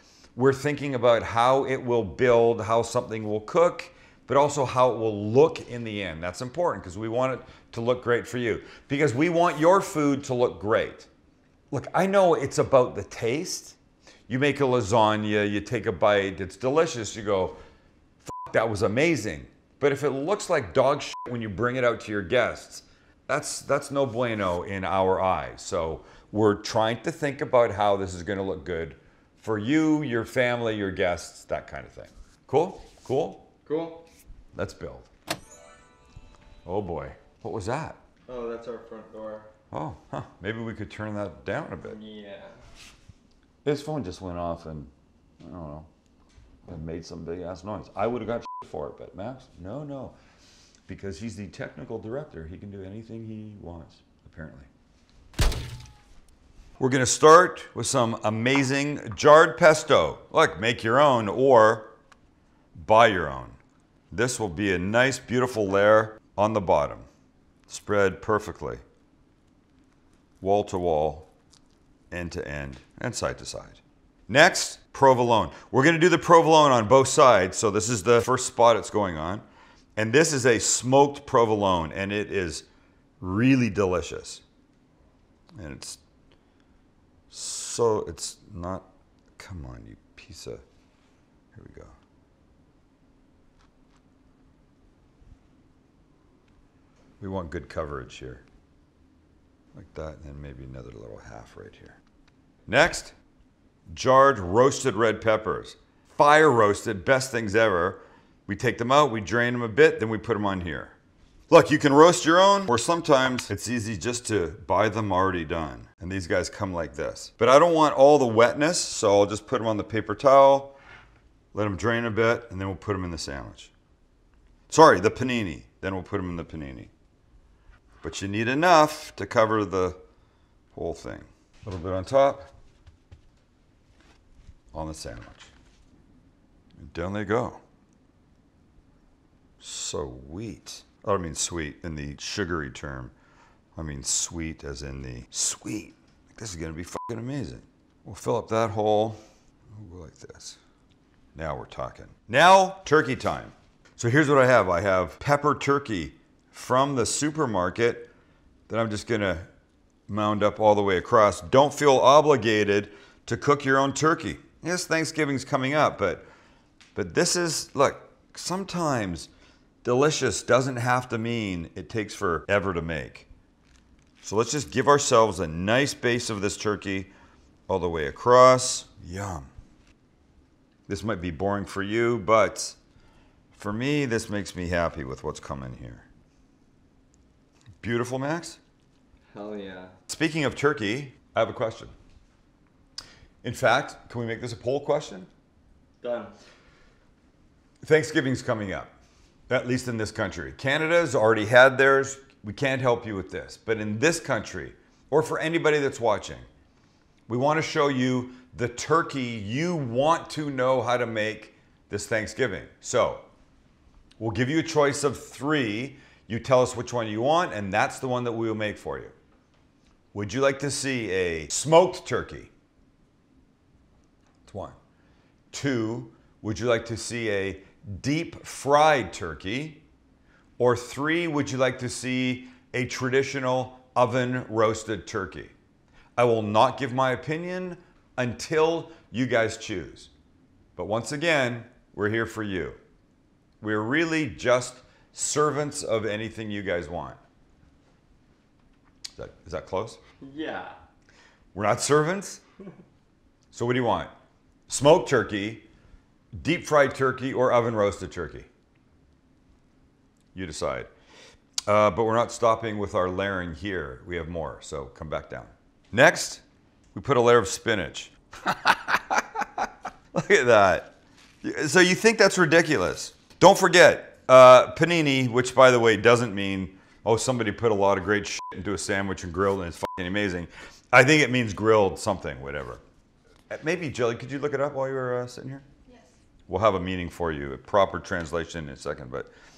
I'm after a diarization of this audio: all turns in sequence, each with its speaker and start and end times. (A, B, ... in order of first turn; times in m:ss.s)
0:00.4-0:11.1 A
0:11.7-0:13.8 A
0:14.3-0:17.6 A
0:18.2-0:33.5 A
0:33.6-0:34.0 B
0:34.5-0:35.1 A
0:36.6-0:38.0 A
0:38.3-0:39.5 B
0:39.7-0:42.0 A
0:41.8-0:42.6 B
0:43.6-0:45.9 A
0:46.7-0:50.2 A
0:50.9-0:54.7 A
0:56.8-1:01.9 A
1:02.7-1:03.6 A
1:04.1-1:07.1 A
1:07.7-1:08.8 A
1:10.4-1:11.3 A
1:12.1-1:19.4 A
1:20.0-1:22.7 A
1:23.2-1:24.4 A
1:25.6-1:26.0 A
1:27.3-1:30.6 A
1:31.5-1:32.0 A
1:37.2-1:38.4 A
1:39.7-1:42.0 A
1:42.7-1:43.1 A
1:43.9-1:51.0 A
1:51.5-2:00.7 A
2:01.5-2:03.7 A
2:04.7-2:06.9 A
2:08.0-2:10.0 A
2:10.7-2:12.5 A
2:14.7-2:15.5 A
2:16.8-2:17.6 A
2:19.6-2:23.1 A
2:23.8-2:29.2 A
2:29.7-2:30.6 A
2:31.3-2:38.1 A
2:38.7-2:39.5 A
2:40.1-2:46.2 A
2:46.9-2:49.3 A
2:49.8-2:53.3 A
2:54.2-2:57.1 A
2:57.7-2:59.5 A
3:00.9-3:02.8 A
3:03.5-3:06.0 A
3:07.8-3:08.6 A
3:09.3-3:10.0 B
3:10.1-3:11.9 A
3:13.4-3:15.3 A
3:16.0-3:16.4 B
3:17.8-3:18.9 A
3:19.5-3:26.4 A
3:27.3-3:33.2 A
3:34.2-3:39.1 A
3:40.1-3:42.5 A
3:44.4-3:44.8 A
3:45.5-3:49.8 A
3:50.6-3:55.5 A
3:56.2-4:00.1 A
4:00.8-4:02.8 A
4:03.6-4:07.2 A
4:09.2-4:10.0 A
4:10.2-4:10.8 B
4:11.5-4:12.4 A
4:13.5-4:14.1 A
4:14.7-4:15.6 A
4:16.4-4:18.5 A
4:20.3-4:20.9 A
4:21.7-4:26.4 A
4:26.9-4:42.8 A
4:43.5-4:45.6 A
4:46.5-4:49.3 A